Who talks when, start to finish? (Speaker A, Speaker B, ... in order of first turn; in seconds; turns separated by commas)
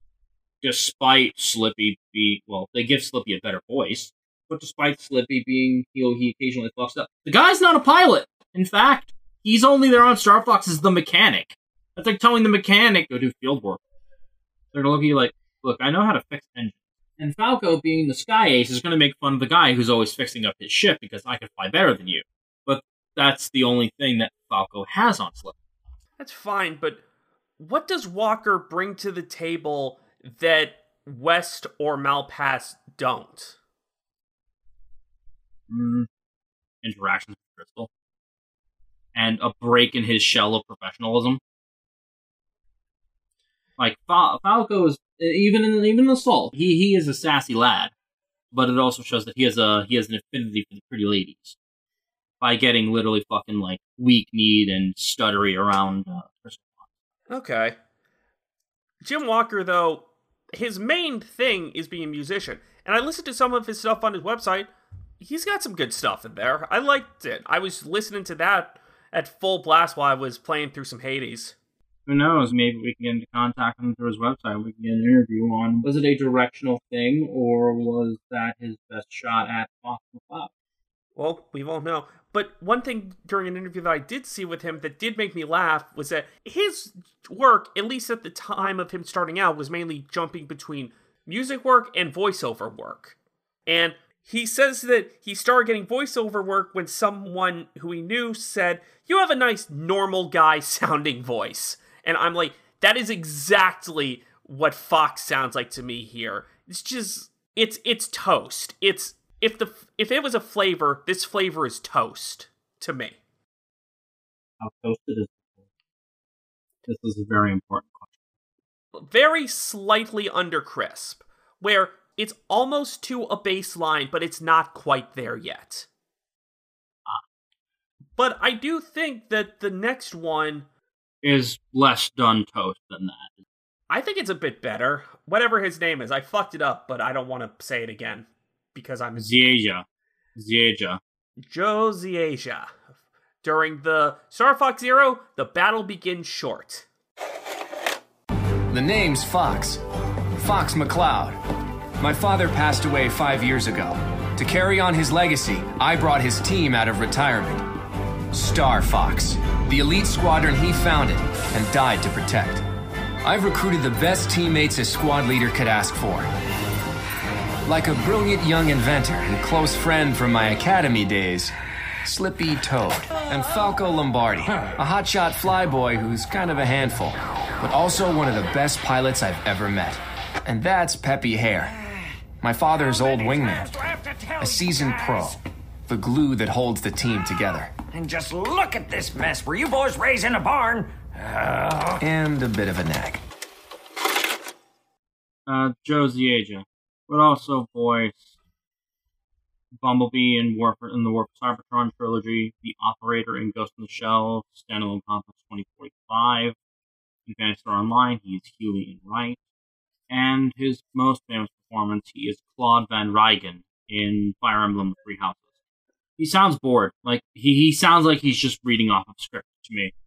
Speaker A: 0.6-13.8, Speaker A: 14.7-25.6, Speaker B: 26.2-27.0, Speaker B: 27.6-33.6, Speaker A: 35.7-36.1, Speaker A: 36.8-37.9, Speaker A: 39.1-41.4, Speaker A: 43.8-47.9, Speaker A: 48.5-51.6, Speaker A: 52.4-56.9, Speaker B: 57.3-57.8, Speaker B: 59.0-64.7, Speaker B: 65.2-71.5, Speaker A: 72.1-80.5, Speaker B: 81.2-93.2, Speaker B: 93.7-113.2, Speaker A: 114.6-115.6, Speaker A: 116.8-118.1, Speaker B: 119.0-125.9, Speaker B: 128.2-130.7, Speaker A: 131.2-133.4, Speaker B: 133.9-139.3, Speaker A: 139.2-141.0, Speaker B: 141.5-142.7, Speaker B: 143.4-146.9, Speaker C: 148.7-149.8, Speaker C: 150.4-151.4, Speaker C: 152.0-157.7, Speaker C: 158.3-162.6, Speaker C: 163.2-166.3, Speaker C: 167.7-171.5, Speaker C: 172.0-181.8, Speaker C: 182.4-183.8, Speaker C: 184.4-187.7, Speaker D: 188.6-190.8, Speaker C: 192.0-193.2, Speaker A: 195.5-198.3, Speaker A: 199.8-206.6, Speaker A: 207.2-209.4, Speaker A: 210.1-215.5, Speaker A: 216.2-219.9